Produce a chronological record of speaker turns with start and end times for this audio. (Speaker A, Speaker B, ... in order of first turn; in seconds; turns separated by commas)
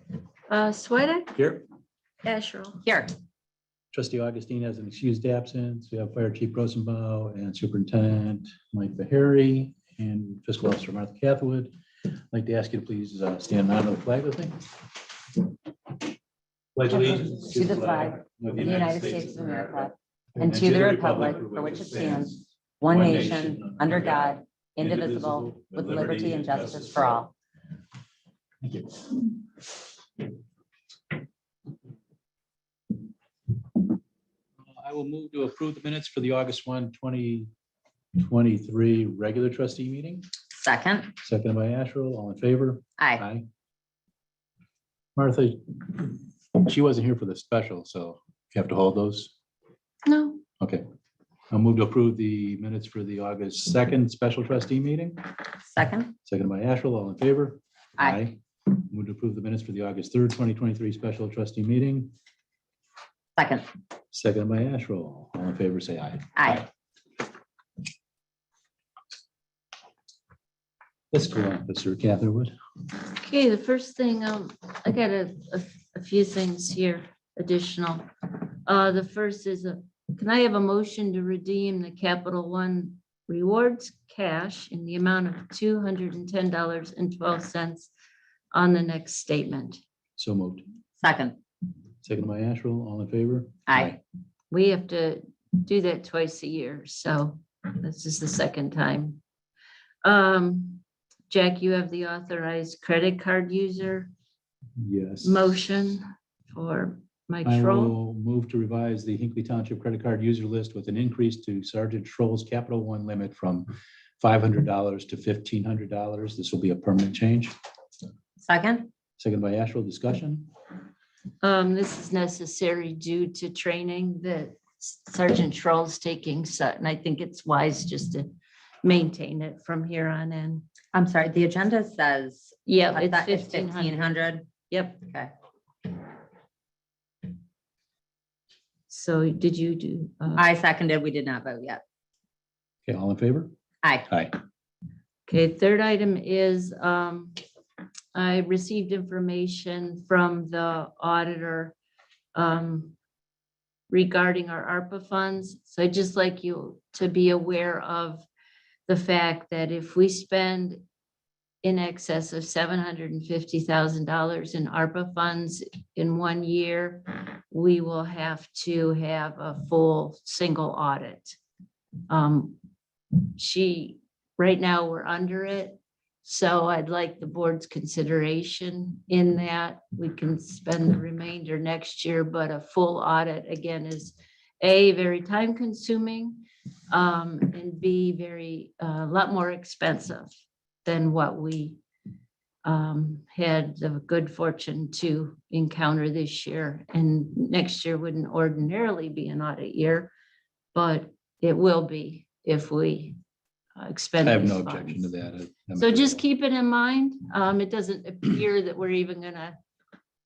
Speaker A: 0.5-1.4, Speaker B: 1.4-1.6, Speaker A: 2.2-2.8, Speaker C: 2.9-3.1, Speaker B: 3.9-11.7, Speaker B: 12.3-14.7, Speaker B: 16.8-19.7, Speaker C: 16.9-27.3, Speaker B: 20.4-27.2, Speaker B: 28.6-29.1, Speaker B: 34.8-37.5, Speaker B: 38.2-40.3, Speaker C: 40.6-41.1, Speaker B: 41.2-43.5, Speaker B: 45.2-49.3, Speaker A: 50.1-50.4, Speaker B: 51.5-55.3, Speaker C: 55.7-56.1, Speaker B: 56.3-62.1, Speaker C: 63.4-63.7, Speaker B: 64.1-66.3, Speaker C: 66.4-66.7, Speaker B: 71.1-72.5, Speaker A: 73.1-87.9, Speaker A: 88.5-89.8, Speaker B: 90.2-90.7, Speaker C: 91.0-91.4, Speaker B: 92.0-94.0, Speaker C: 93.7-94.0, Speaker A: 94.5-99.2, Speaker A: 100.0-104.1, Speaker B: 104.8-105.5, Speaker A: 105.2-108.0, Speaker B: 107.5-117.5, Speaker C: 118.4-118.9, Speaker B: 119.2-120.5, Speaker A: 121.4-130.7, Speaker C: 130.9-134.5, Speaker A: 132.7-134.0, Speaker A: 134.7-135.0, Speaker A: 138.9-140.5, Speaker C: 140.4-141.8, Speaker B: 142.9-143.5, Speaker C: 143.8-144.1, Speaker B: 144.1-144.3, Speaker A: 145.3-147.3, Speaker A: 148.1-151.8, Speaker A: 152.3-152.9, Speaker A: 153.9-158.3, Speaker A: 158.9-160.8, Speaker A: 161.6-171.4, Speaker A: 172.1-172.6, Speaker A: 173.2-190.3, Speaker A: 190.8-191.8, Speaker A: 192.6-200.1, Speaker A: 200.7-203.2, Speaker A: 203.8-205.1, Speaker B: 204.2-206.2, Speaker A: 205.8-209.6